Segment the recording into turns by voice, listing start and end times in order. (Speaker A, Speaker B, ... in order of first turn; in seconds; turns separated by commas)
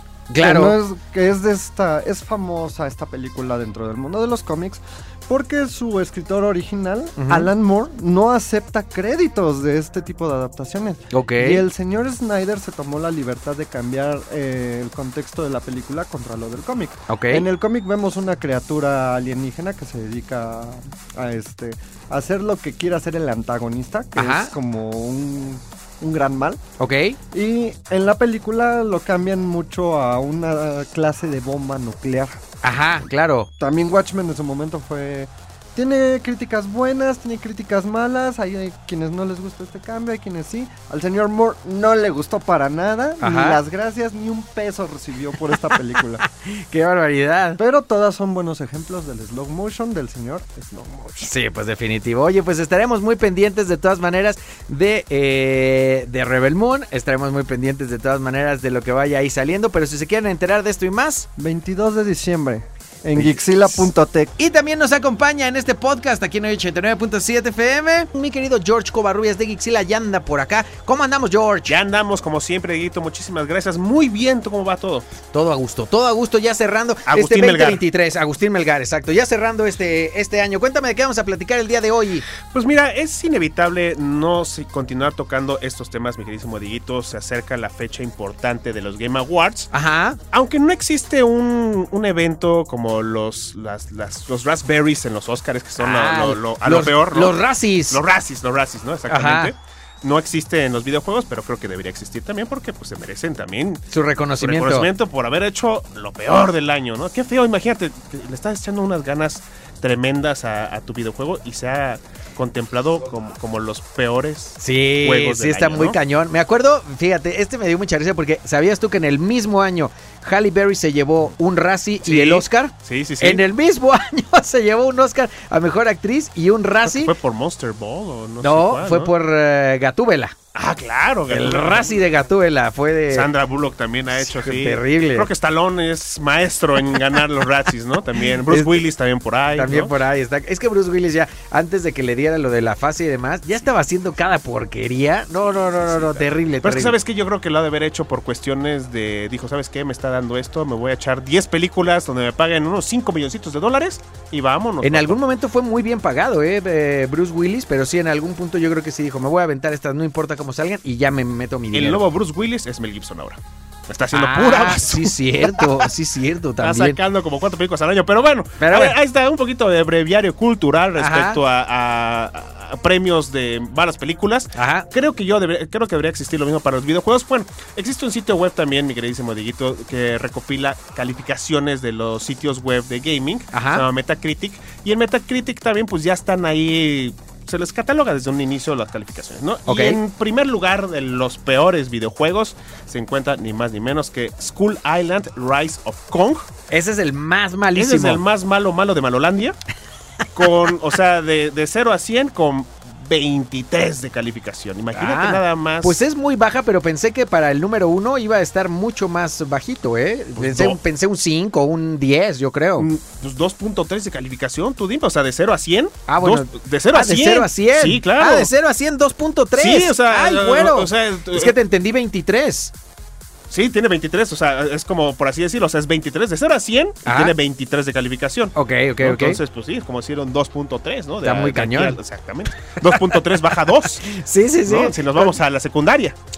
Speaker A: 0.3-0.8, Speaker B: 0.4-26.6, Speaker A: 7.2-7.5, Speaker A: 11.1-11.7, Speaker A: 17.1-17.5, Speaker A: 24.2-24.5, Speaker A: 26.8-27.2, Speaker B: 27.3-32.4, Speaker A: 32.6-33.5, Speaker B: 33.6-46.2, Speaker A: 43.2-43.6, Speaker A: 46.6-47.6, Speaker B: 47.6-51.3, Speaker A: 51.2-61.3, Speaker B: 61.4-64.3, Speaker A: 63.2-63.9, Speaker A: 64.4-71.8, Speaker C: 71.7-75.1, Speaker A: 75.3-82.2, Speaker C: 77.1-77.8, Speaker C: 82.5-89.7, Speaker A: 89.7-90.2, Speaker C: 90.3-103.8, Speaker A: 95.8-98.0, Speaker A: 99.1-99.5, Speaker A: 103.9-104.9, Speaker C: 104.4-116.0, Speaker A: 114.6-127.1, Speaker C: 122.0-123.5, Speaker C: 126.8-129.1, Speaker A: 128.4-130.3, Speaker C: 130.6-132.1, Speaker A: 131.3-133.3, Speaker C: 133.1-139.9, Speaker A: 134.2-135.3, Speaker A: 138.5-138.8, Speaker A: 139.6-147.0, Speaker C: 145.8-155.2, Speaker A: 154.8-162.0, Speaker C: 161.7-165.9, Speaker A: 164.1-167.0, Speaker C: 166.6-196.5, Speaker A: 168.6-169.0, Speaker A: 171.0-171.4, Speaker A: 174.6-174.9, Speaker A: 183.5-183.9, Speaker A: 189.7-190.0, Speaker A: 196.7-198.2, Speaker C: 197.8-199.6, Speaker C: 200.3-206.0, Speaker A: 204.9-212.9, Speaker C: 210.3-210.8, Speaker C: 212.8-218.5, Speaker A: 216.1-222.7, Speaker C: 219.5-221.6, Speaker C: 223.5-234.1, Speaker A: 227.1-227.3, Speaker A: 228.6-229.4, Speaker A: 231.2-232.0, Speaker A: 232.9-235.4, Speaker C: 234.7-236.2